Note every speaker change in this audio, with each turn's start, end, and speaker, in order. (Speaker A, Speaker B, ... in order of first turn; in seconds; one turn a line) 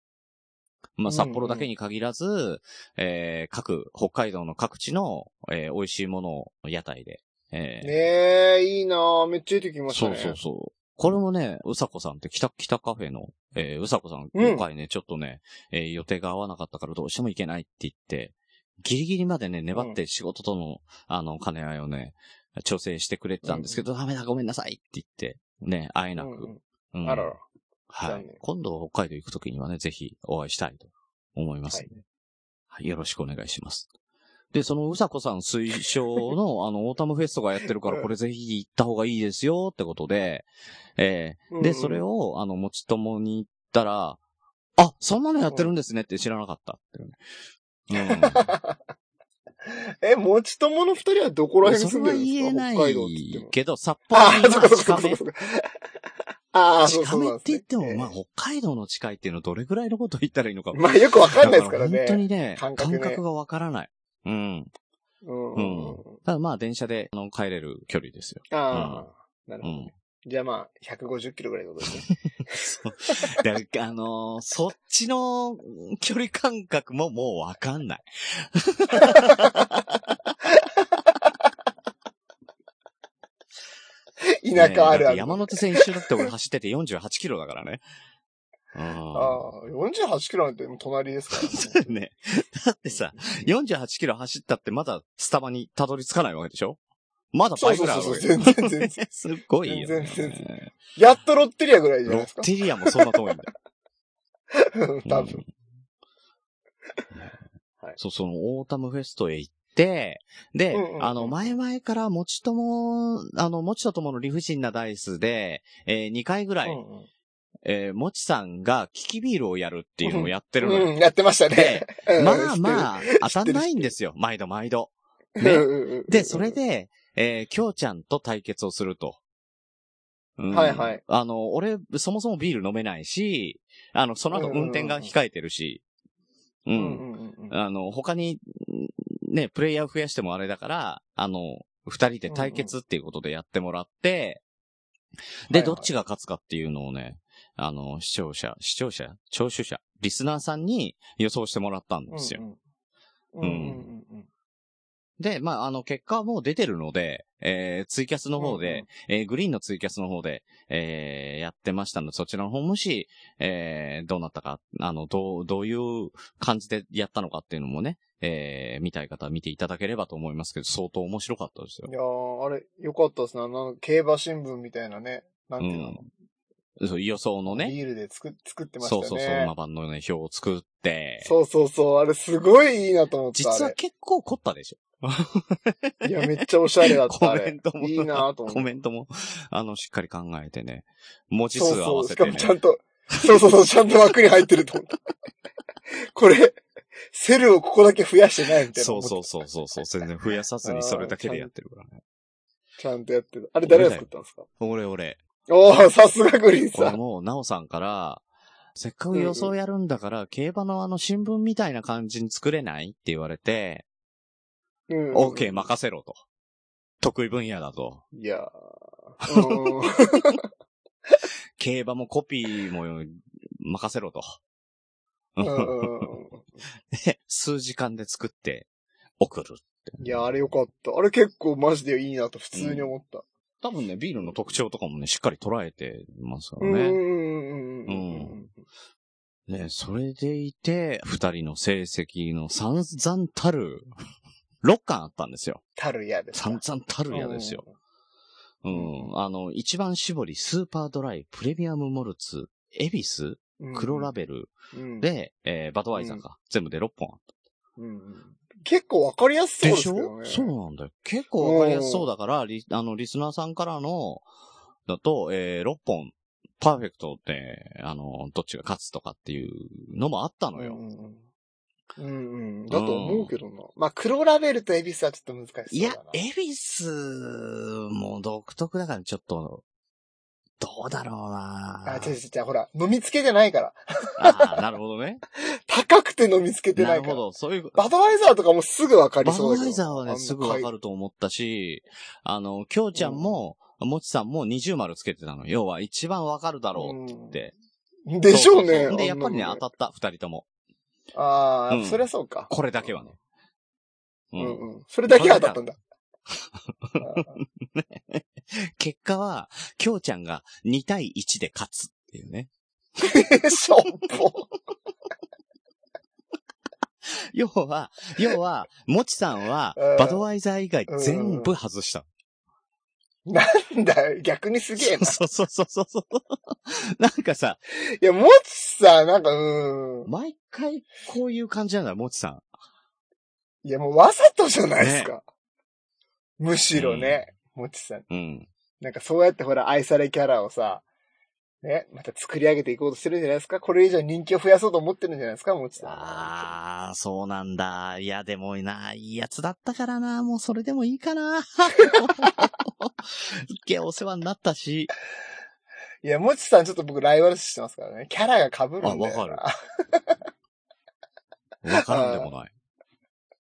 Speaker A: 1.0-8.0
Speaker B: 1.1-1.7
Speaker B: 7.8-10.4
Speaker A: 9.9-27.3
Speaker B: 14.3-14.6
Speaker B: 23.4-23.8
Speaker B: 26.2-27.4
Speaker A: 27.9-32.0
Speaker B: 28.0-28.4
Speaker A: 32.7-33.9
Speaker A: 34.5-44.2
Speaker B: 41.5-42.0
Speaker A: 44.8-47.2
Speaker A: 47.9-48.5
Speaker B: 47.9-48.8
Speaker B: 49.6-53.5
Speaker A: 51.6-55.2
Speaker B: 54.1-55.6
Speaker B: 56.5-58.1
Speaker A: 56.8-64.7
Speaker B: 60.7-63.2
Speaker B: 65.2-66.2
Speaker A: 65.5-69.1
Speaker B: 68.5-72.6
Speaker A: 69.6-69.9
Speaker A: 72.5-79.5
Speaker B: 78.9-79.6
Speaker B: 84.2-86.2
Speaker A: 84.5-87.8
Speaker A: 88.7-89.4
Speaker B: 89.1-92.0
Speaker A: 91.3-96.8
Speaker A: 97.3-100.7
Speaker B: 97.6-99.0
Speaker B: 99.6-103.1
Speaker A: 102.0-103.5
Speaker B: 104.5-105.4
Speaker A: 105.0-105.5
Speaker A: 108.0-116.8
Speaker B: 110.7-111.3
Speaker B: 116.6-117.1
Speaker A: 117.6-120.9
Speaker B: 120.0-123.9
Speaker A: 121.5-129.2
Speaker B: 125.4-126.6
Speaker A: 130.4-135.8
Speaker B: 130.5-131.0
Speaker B: 134.3-135.1
Speaker A: 136.7-144.4
Speaker B: 136.7-137.5
Speaker B: 142.3-142.7
Speaker A: 145.5-152.4
Speaker B: 145.5-145.9
Speaker B: 152.1-152.6
Speaker B: 153.3-154.3
Speaker A: 153.4-153.9
Speaker A: 155.2-171.9
Speaker B: 158.4-158.9
Speaker B: 171.9-176.1
Speaker A: 175.6-176.0
Speaker A: 176.8-177.8
Speaker B: 177.5-179.5
Speaker A: 178.8-181.3
Speaker B: 181.2-183.7
Speaker A: 183.3-186.3
Speaker B: 186.0-188.7
Speaker A: 186.8-192.5
Speaker B: 191.5-195.0
Speaker A: 193.1-193.4
Speaker B: 196.1-196.6
Speaker B: 197.1-199.2
Speaker A: 198.7-202.0
Speaker B: 200.6-201.5
Speaker B: 202.8-204.5
Speaker A: 203.6-204.1
Speaker A: 204.6-205.2
Speaker B: 205.5-207.0
Speaker A: 206.7-208.2
Speaker A: 208.8-213.8
Speaker B: 209.1-209.5
Speaker B: 214.9-215.7
Speaker A: 215.1-216.2
Speaker A: 217.0-218.0
Speaker B: 218.1-218.5
Speaker B: 219.2-220.4
Speaker A: 219.2-219.8
Speaker A: 221.6-224.4
Speaker A: 225.3-226.1
Speaker B: 225.4-226.4
Speaker A: 226.9-228.7
Speaker A: 229.2-230.5
Speaker B: 230.0-233.2
Speaker A: 232.5-232.9
Speaker A: 233.6-237.0
Speaker B: 236.6-238.5
Speaker A: 237.9-238.4
Speaker A: 239.5-243.9
Speaker A: 244.6-245.6
Speaker B: 245.8-247.7
Speaker A: 246.3-247.6
Speaker A: 248.6-257.2
Speaker B: 248.7-249.1
Speaker B: 253.6-254.1
Speaker B: 254.7-255.1
Speaker B: 255.9-256.2
Speaker B: 257.8-260.5
Speaker A: 259.6-264.2
Speaker B: 261.4-262.1
Speaker A: 264.9-270.8
Speaker B: 270.5-271.2
Speaker B: 272.0-276.2
Speaker A: 272.7-273.3
Speaker A: 275.7-279.6
Speaker A: 280.6-282.1
Speaker B: 281.8-284.6
Speaker A: 284.2-285.2
Speaker B: 285.7-287.2
Speaker A: 286.7-287.9
Speaker B: 287.7-290.7
Speaker A: 289.2-297.5
Speaker B: 292.9-293.4
Speaker B: 296.8-297.4
Speaker B: 298.1-299.6
Speaker A: 298.3-300.4
Speaker B: 301.1-303.1
Speaker A: 301.7-303.1
Speaker A: 304.3-305.6
Speaker B: 304.4-305.8
Speaker A: 306.7-312.5
Speaker B: 307.0-307.4
Speaker B: 313.0-314.5
Speaker A: 317.1-322.1
Speaker B: 319.8-320.2
Speaker B: 320.9-321.5
Speaker B: 323.3-325.2
Speaker A: 324.8-327.6
Speaker B: 327.8-330.1
Speaker A: 330.1-332.4
Speaker B: 333.6-335.2
Speaker A: 334.8-335.1
Speaker B: 336.4-338.1
Speaker A: 336.7-337.2
Speaker A: 338.1-338.5
Speaker B: 338.8-340.8
Speaker B: 341.6-346.5
Speaker A: 345.8-354.9
Speaker B: 356.0-360.2
Speaker A: 358.8-359.4
Speaker A: 361.6-362.5
Speaker B: 361.7-362.3